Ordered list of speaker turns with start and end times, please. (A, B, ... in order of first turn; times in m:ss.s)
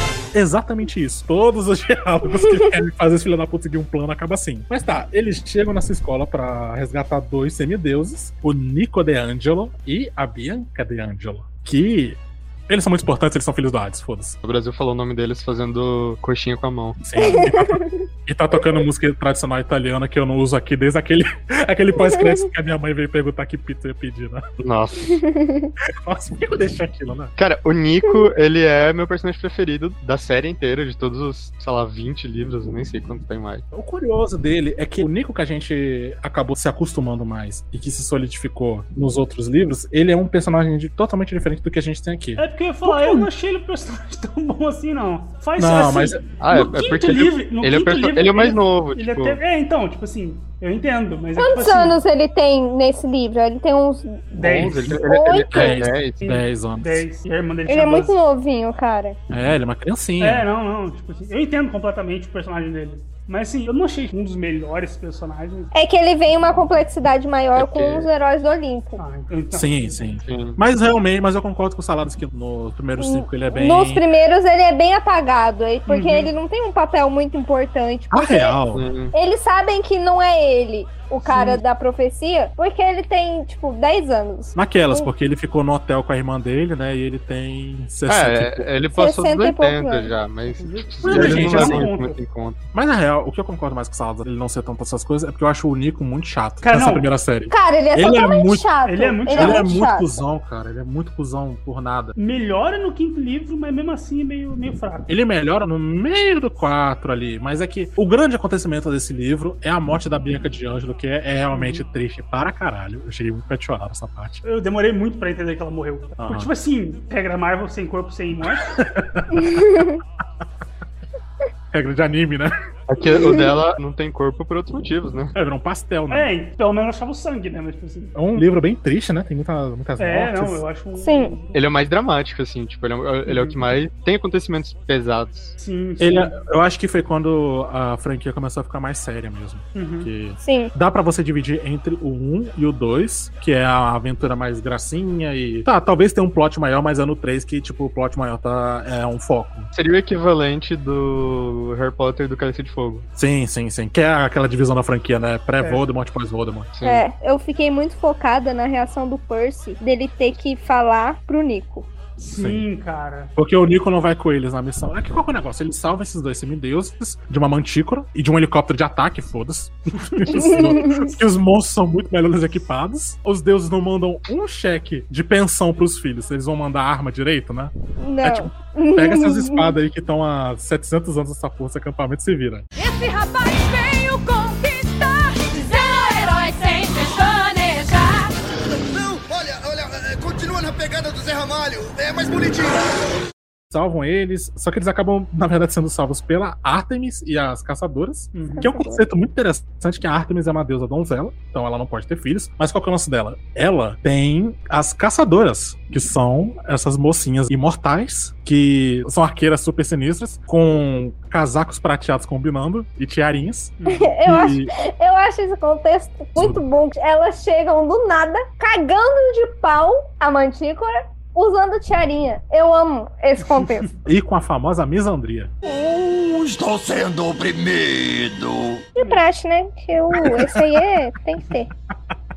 0:00.3-0:14.4 A
0:14.4-0:17.0 B
0:17.0-0:24.4 A
0:17.2-0:18.0 C
0:22.0-0:22.4 C
0:24.6-0:25.1 B
0:25.1-0:25.7 C
0:25.9-0:27.3 A
0:27.4-0:33.6 B
0:33.7-0:42.4 A
0:42.4-0:52.0 D
0:42.8-0:43.3 C
0:45.6-0:46.2 A
0:46.4-0:49.4 B
0:51.4-0:54.4 C
0:54.4-0:54.9 D
0:54.4-0:56.2 B
0:54.6-0:57.0 A
0:54.9-0:55.8 C
0:56.2-0:58.1 D
0:57.7-0:59.2 C
0:59.3-1:00.5 A
1:00.2-1:05.7 D
1:05.7-1:09.0 C
1:07.6-1:08.1 B
1:09.0-1:10.0 D
1:09.5-1:14.0 A
1:10.3-1:10.6 B
1:13.0-1:18.6 C
1:15.9-1:16.3 D
1:18.1-1:18.9 A
1:18.7-1:19.1 B
1:19.1-1:25.1 C
1:21.3-1:21.6 D
1:24.5-1:28.7 A
1:28.1-1:32.6 B
1:28.9-1:30.1 C
1:30.6-1:32.2 D
1:31.0-1:31.9 A
1:32.7-1:38.6 A
1:36.6-1:37.0 D
1:37.5-1:40.0 C
1:38.8-1:39.6 D
1:39.3-1:42.1 A
1:42.2-1:45.1 D
1:45.1-1:54.4 A
1:51.5-1:51.8 D
1:54.4-1:58.7 D
1:56.2-1:56.5 A
1:58.5-1:59.9 A
1:59.4-2:00.0 C
2:01.7-2:02.5 A
2:02.9-2:05.3 B
2:05.3-2:06.3 A
2:06.1-2:08.3 D
2:08.2-2:10.6 A
2:10.0-2:11.6 D
2:11.0-2:11.3 C
2:11.5-2:15.6 B
2:13.2-2:13.6 D
2:15.6-2:16.3 D
2:16.0-2:29.7 A
2:19.7-2:20.1 D
2:20.4-2:20.7 C
2:29.7-2:33.0 B
2:33.2-2:36.7 A
2:36.7-2:37.0 B
2:36.8-2:41.9 C
2:42.2-2:43.3 D
2:42.3-2:42.6 A
2:43.4-3:02.6 A
2:50.3-2:51.2 C
2:58.0-2:59.8 C
3:02.8-3:08.3 E
3:13.7-3:34.7 A
3:18.3-3:18.7 D
3:18.5-3:19.0 C
3:33.8-3:34.2 D
3:33.9-3:43.9 C
3:36.4-3:36.6 A
3:43.5-3:43.9 D
3:44.0-3:45.5 A
3:45.6-3:48.8 F
3:49.0-3:51.7 C
3:50.2-3:50.9 A